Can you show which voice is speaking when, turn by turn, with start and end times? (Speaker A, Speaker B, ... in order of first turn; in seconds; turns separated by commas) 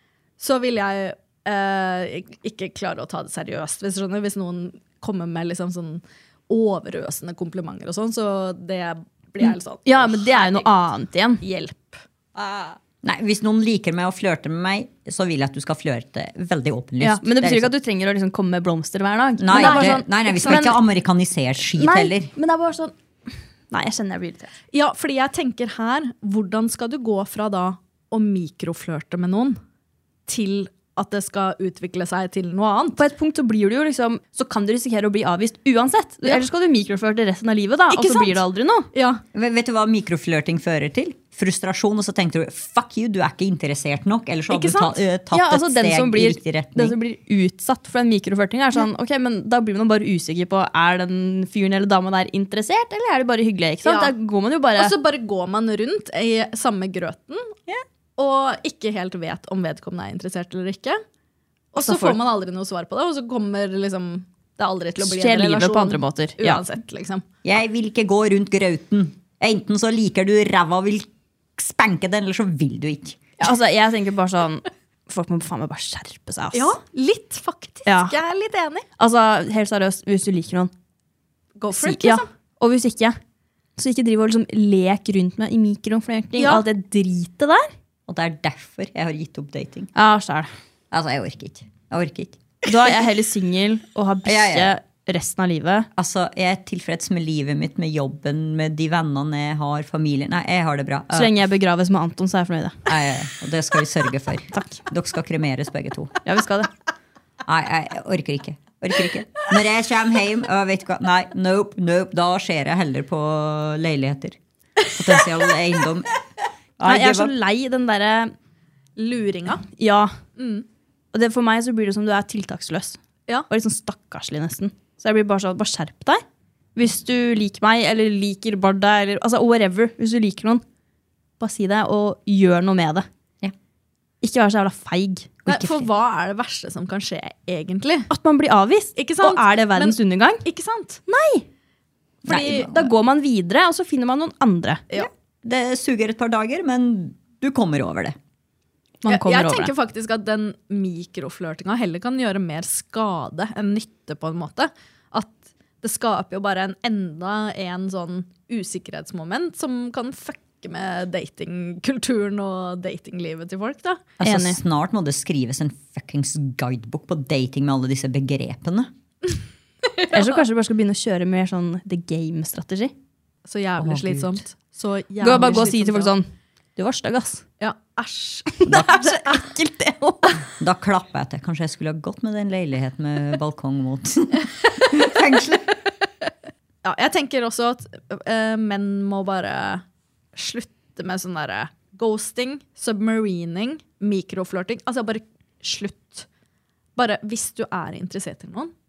Speaker A: 0.4-10.7, Speaker B: 9.5-11.4, Speaker A: 11.4-12.8, Speaker C: 13.0-17.7, Speaker B: 17.0-20.8, Speaker C: 19.4-22.3, Speaker A: 19.5-20.7, Speaker B: 21.7-22.9, Speaker B: 23.7-24.5, Speaker A: 24.7-29.6, Speaker A: 30.3-33.0, Speaker B: 33.0-38.9, Speaker A: 37.9-39.2, Speaker C: 39.3-47.0, Speaker A: 44.5-45.0, Speaker B: 45.3-54.9, Speaker A: 53.8-54.1, Speaker A: 54.8-57.5, Speaker A: 58.2-61.0, Speaker A: 61.7-67.2, Speaker B: 61.8-62.2, Speaker B: 65.0-66.6, Speaker C: 67.4-73.2, Speaker B: 73.4-76.7, Speaker A: 76.5-78.8, Speaker B: 77.9-78.1, Speaker B: 79.0-80.7, Speaker A: 81.6-82.3, Speaker B: 81.7-83.2, Speaker B: 83.8-87.7, Speaker A: 86.4-86.6, Speaker C: 88.1-89.9, Speaker B: 89.9-90.5, Speaker C: 90.9-92.4, Speaker B: 92.6-95.9, Speaker C: 94.2-94.7, Speaker C: 96.0-101.3, Speaker B: 101.1-102.9, Speaker C: 102.9-106.2, Speaker B: 104.5-104.8, Speaker B: 106.2-106.7, Speaker C: 107.4-114.4, Speaker C: 114.9-116.1, Speaker C: 116.8-117.3, Speaker B: 116.8-118.3, Speaker A: 119.0-119.6, Speaker B: 119.8-120.2, Speaker A: 120.4-120.6, Speaker B: 121.1-123.0, Speaker B: 123.5-126.2, Speaker B: 126.8-130.6, Speaker B: 131.4-133.1, Speaker B: 134.2-135.4, Speaker A: 135.4-138.1, Speaker C: 135.5-135.8, Speaker B: 138.1-140.4, Speaker A: 138.9-141.0, Speaker B: 141.1-141.4, Speaker C: 142.2-142.8, Speaker A: 142.3-142.8, Speaker B: 142.3-144.8, Speaker C: 144.9-148.2, Speaker B: 149.0-149.7, Speaker A: 149.1-164.0, Speaker C: 164.2-168.9, Speaker B: 164.2-164.6, Speaker A: 169.9-170.2, Speaker B: 170.1-172.9, Speaker A: 173.4-176.1, Speaker C: 173.8-174.4, Speaker B: 175.2-177.4, Speaker A: 177.6-179.5, Speaker B: 178.6-180.4, Speaker C: 178.7-179.0, Speaker C: 180.6-185.7, Speaker A: 186.8-189.8, Speaker A: 190.3-196.3, Speaker A: 196.9-198.7